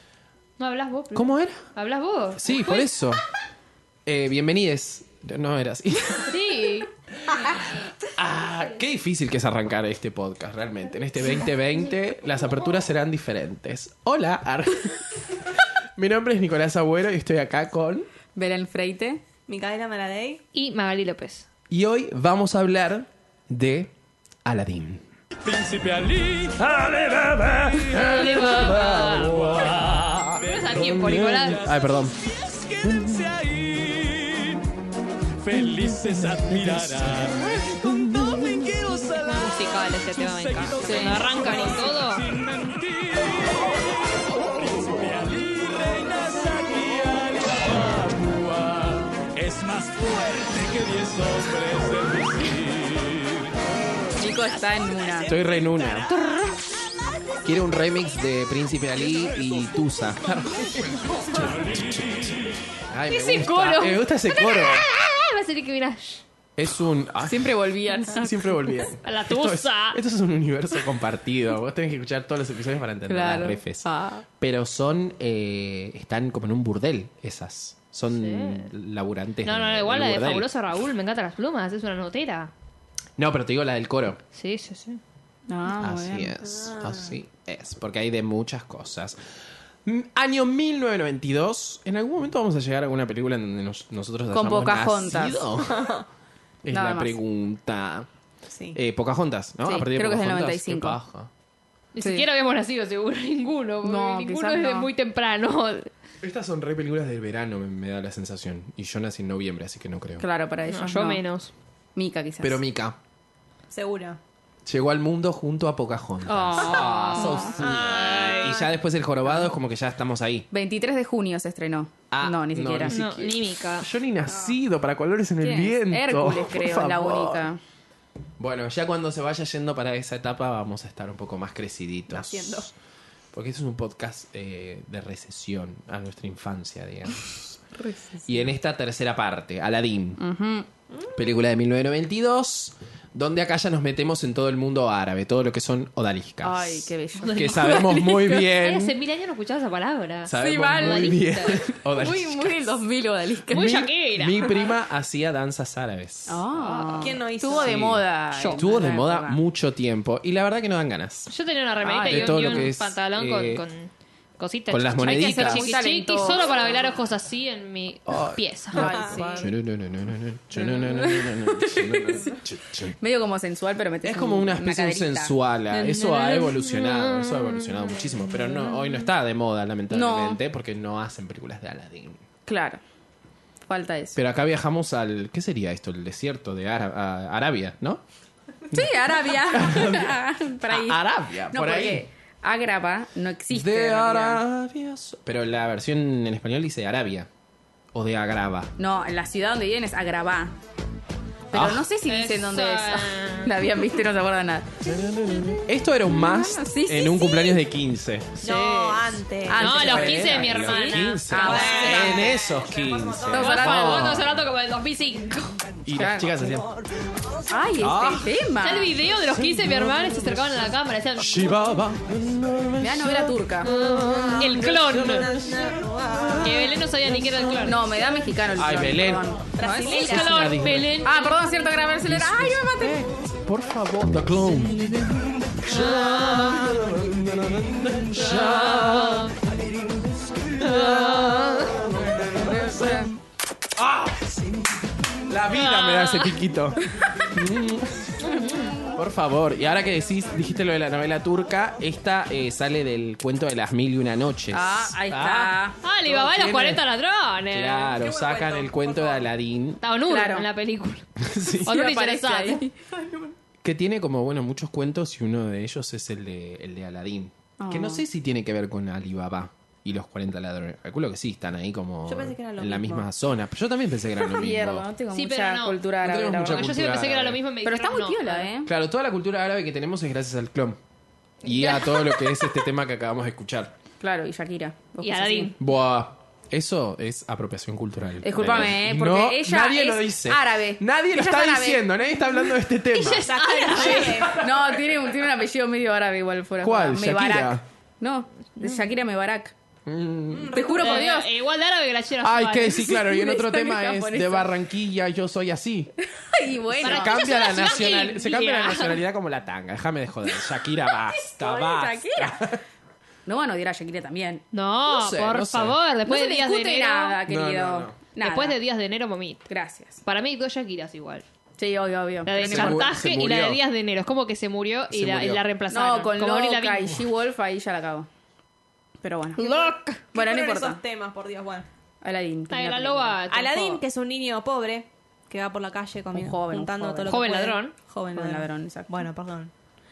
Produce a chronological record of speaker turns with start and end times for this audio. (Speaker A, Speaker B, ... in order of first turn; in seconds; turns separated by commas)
Speaker A: 0.6-2.9, Speaker B: 1.1-1.6, Speaker B: 2.4-3.2, Speaker B: 4.0-6.3, Speaker A: 6.3-7.8, Speaker B: 7.2-15.0, Speaker B: 15.9-18.1, Speaker C: 18.3-19.2, Speaker D: 19.5-20.4, Speaker A: 20.5-21.5, Speaker B: 21.7-23.9, Speaker B: 24.4-25.1, Speaker E: 25.4-34.6, Speaker B: 26.7-30.2, Speaker A: 27.9-29.8, Speaker A: 30.3-31.7, Speaker B: 30.7-32.1, Speaker B: 32.8-33.2, Speaker E: 35.4-53.5, Speaker B: 36.5-36.9, Speaker B: 37.6-38.6, Speaker A: 39.3-42.2, Speaker C: 40.8-41.3, Speaker C: 54.2-55.3, Speaker E: 54.9-56.3, Speaker B: 55.3-56.1, Speaker B: 57.4-61.6, Speaker E: 61.1-62.6, Speaker B: 62.9-64.9, Speaker A: 63.1-66.2, Speaker B: 66.6-80.5, Speaker C: 67.2-68.8, Speaker A: 69.0-70.0, Speaker C: 73.1-74.2, Speaker A: 78.0-78.7, Speaker A: 79.4-82.5, Speaker B: 83.2-84.2, Speaker A: 84.3-85.0, Speaker C: 85.5-86.3, Speaker B: 85.8-89.2, Speaker D: 86.5-87.2, Speaker B: 89.8-96.0, Speaker C: 94.3-95.5, Speaker D: 95.7-96.0, Speaker B: 96.6-98.1, Speaker C: 96.7-97.2, Speaker D: 98.5-98.8, Speaker B: 98.7-101.3, Speaker C: 99.6-101.0, Speaker A: 101.9-105.9, Speaker C: 102.0-102.3, Speaker C: 103.8-104.9, Speaker B: 106.2-110.3, Speaker C: 110.2-111.2, Speaker A: 110.7-111.5, Speaker C: 111.9-112.6, Speaker B: 112.4-113.0, Speaker D: 113.7-114.2, Speaker B: 114.7-120.5, Speaker A: 116.3-118.6, Speaker C: 116.5-117.6, Speaker D: 117.6-118.7, Speaker C: 120.5-123.0, Speaker B: 122.1-127.5, Speaker A: 122.8-123.9, Speaker C: 125.4-127.6, Speaker B: 128.4-132.7, Speaker D: 132.1-132.7, Speaker B: 133.3-137.6, Speaker C: 137.7-138.5, Speaker B: 138.2-140.2, Speaker C: 140.2-140.7, Speaker B: 141.1-148.9, Speaker C: 146.4-148.5, Speaker A: 147.2-151.6, Speaker B: 150.2-152.5, Speaker C: 150.3-153.8, Speaker A: 153.5-154.7, Speaker B: 153.5-156.4, Speaker C: 156.3-159.4, Speaker A: 156.5-157.2, Speaker D: 157.0-157.9, Speaker B: 157.5-161.3, Speaker A: 158.3-158.6, Speaker A: 161.3-168.9, Speaker C: 161.8-162.7, Speaker B: 162.1-163.6, Speaker B: 164.7-165.8, Speaker C: 165.0-166.8, Speaker B: 168.1-173.0, Speaker C: 168.7-169.5, Speaker D: 168.8-169.4, Speaker C: 170.6-172.4, Speaker C: 173.0-175.3, Speaker B: 174.0-182.2, Speaker A: 175.7-178.7, Speaker C: 179.9-180.4, Speaker C: 182.5-182.8, Speaker C: 183.7-184.2, Speaker B: 184.2-188.0, Speaker B: 188.7-192.0, Speaker C: 188.7-194.4, Speaker B: 193.5-197.3, Speaker B: 197.9-198.7, Speaker C: 198.8-200.6, Speaker C: 201.5-204.8, Speaker B: 201.5-201.8, Speaker A: 202.0-203.6, Speaker B: 204.8-208.3, Speaker C: 206.0-207.6, Speaker A: 208.4-212.3, Speaker D: 208.4-209.7, Speaker C: 209.4-212.3, Speaker B: 209.7-214.4, Speaker D: 211.4-213.7, Speaker C: 213.3-214.1, Speaker A: 213.3-215.6, Speaker B: 215.8-216.7, Speaker C: 215.9-216.5, Speaker C: 217.5-219.0, Speaker B: 217.8-218.3, Speaker A: 218.6-221.7, Speaker B: 219.3-220.4, Speaker B: 221.2-223.7, Speaker C: 222.8-223.7, Speaker A: 223.6-225.3, Speaker D: 223.7-226.7, Speaker B: 224.3-226.4, Speaker A: 226.4-227.9, Speaker B: 227.1-227.7, Speaker C: 227.6-229.5, Speaker B: 228.6-231.0, Speaker D: 229.6-230.7, Speaker A: 229.6-231.4, Speaker C: 231.0-233.1, Speaker B: 232.0-239.4, Speaker A: 235.7-236.8, Speaker A: 238.2-239.3, Speaker B: 240.6-243.1, Speaker A: 240.6-241.7, Speaker C: 242.2-243.1, Speaker B: 243.8-244.4, Speaker B: 245.3-248.3, Speaker A: 245.5-246.4, Speaker A: 248.2-248.8, Speaker B: 248.9-256.8, Speaker C: 254.5-255.8, Speaker A: 255.8-257.9, Speaker B: 257.5-259.8, Speaker D: 257.9-259.3, Speaker A: 259.8-261.1, Speaker C: 260.1-260.5, Speaker B: 261.2-261.8, Speaker C: 261.6-262.7, Speaker A: 261.6-262.6, Speaker D: 262.9-263.4, Speaker B: 263.6-274.9, Speaker C: 267.6-268.0, Speaker D: 272.1-273.1, Speaker C: 274.2-276.7, Speaker A: 275.1-278.5, Speaker B: 276.0-277.4, Speaker C: 277.6-278.7, Speaker B: 278.6-280.8, Speaker B: 281.4-283.7, Speaker C: 281.5-282.5, Speaker C: 284.0-285.5, Speaker A: 285.0-285.6, Speaker B: 285.6-293.3, Speaker C: 288.2-291.9, Speaker A: 292.9-294.3, Speaker D: 293.1-294.4, Speaker B: 294.1-294.8, Speaker C: 294.3-299.5, Speaker B: 296.6-297.6, Speaker A: 298.6-298.8, Speaker B: 299.9-300.6, Speaker D: 300.3-301.2, Speaker C: 300.5-301.3, Speaker A: 300.7-302.9, Speaker B: 302.2-305.9, Speaker C: 302.7-304.6, Speaker C: 306.0-308.1, Speaker B: 306.8-312.6, Speaker A: 306.8-309.0, Speaker C: 310.2-312.6, Speaker C: 313.2-314.4, Speaker A: 314.5-317.2, Speaker B: 314.9-315.8, Speaker C: 316.0-318.6, Speaker B: 317.3-318.0, Speaker A: 318.2-319.4, Speaker C: 319.5-320.0, Speaker A: 320.0-321.2, Speaker C: 321.6-322.9, Speaker A: 322.2-327.0, Speaker B: 322.4-323.6, Speaker B: 324.9-325.4, Speaker C: 325.7-328.1, Speaker C: 329.0-329.5, Speaker A: 329.4-330.0, Speaker D: 329.4-331.7, Speaker C: 330.1-330.8, Speaker C: 332.0-333.2, Speaker A: 332.5-333.8, Speaker D: 333.3-339.5, Speaker C: 336.1-337.3, Speaker A: 337.1-337.7, Speaker C: 338.1-339.0